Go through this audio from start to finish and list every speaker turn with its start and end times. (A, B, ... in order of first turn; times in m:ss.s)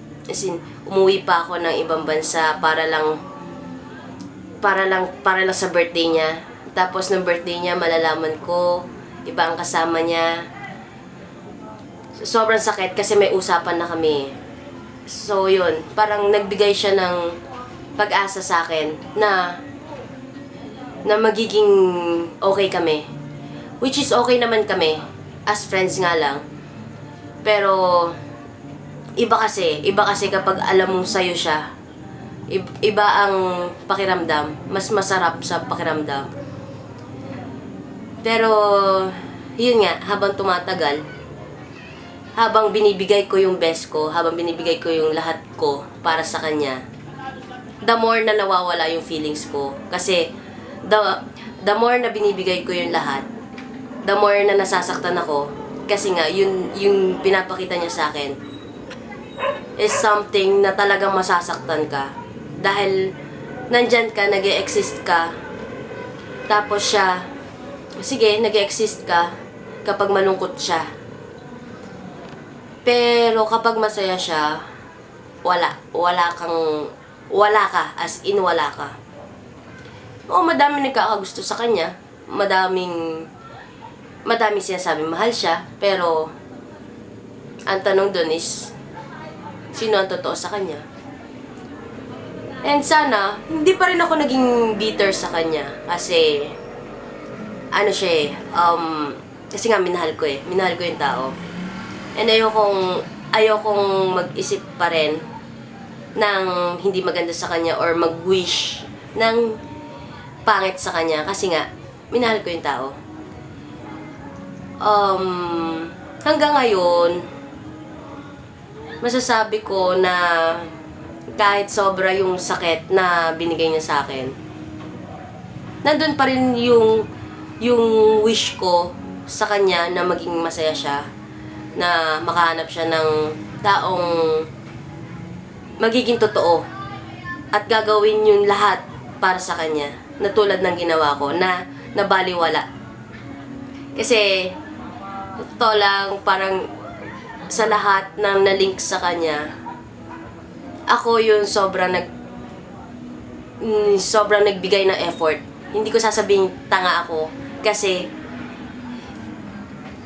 0:00.3-0:03.1 A
0:04.6-0:10.3 A
0:12.2-0:14.3 A
0:15.1-0:17.2 A
0:18.0-0:19.6 A
0:21.0-0:23.0 A
0:23.8-0:26.4 A
0:27.4-0:28.1 A
0:29.2-0:31.6 A
0:32.5-0:36.3 A
0:38.2-0:41.0 A
0:42.4-0:46.8 A
0:47.8-0:50.3 A
0:50.8-0:53.3 A
0:54.0-0:58.4 A
0:59.8-1:03.0 A
1:03.7-1:05.3 A
1:06.5-1:07.2 A
1:08.0-1:09.3 A
1:09.8-1:10.8 A
1:12.8-1:14.5 A
1:15.4-1:18.9 A
1:20.3-1:23.2 A
1:24.2-1:26.3 A
1:27.7-1:28.7 A
1:29.7-1:30.8 A
1:32.6-1:36.5 A
1:37.7-1:41.3 A
1:42.2-1:45.2 A
1:46.2-1:49.6 A
1:50.4-1:52.9 A
1:54.8-1:57.2 A
1:59.0-2:00.7 A
2:01.4-2:04.3 A
2:05.8-2:07.0 A
2:07.6-2:11.0 A
2:11.8-2:14.4 A
2:15.8-2:16.6 A
2:17.5-2:22.6 A
2:24.0-2:24.6 A
2:25.4-2:26.7 A
2:27.5-2:29.4 A
2:30.9-2:32.1 A
2:33.6-2:38.0 A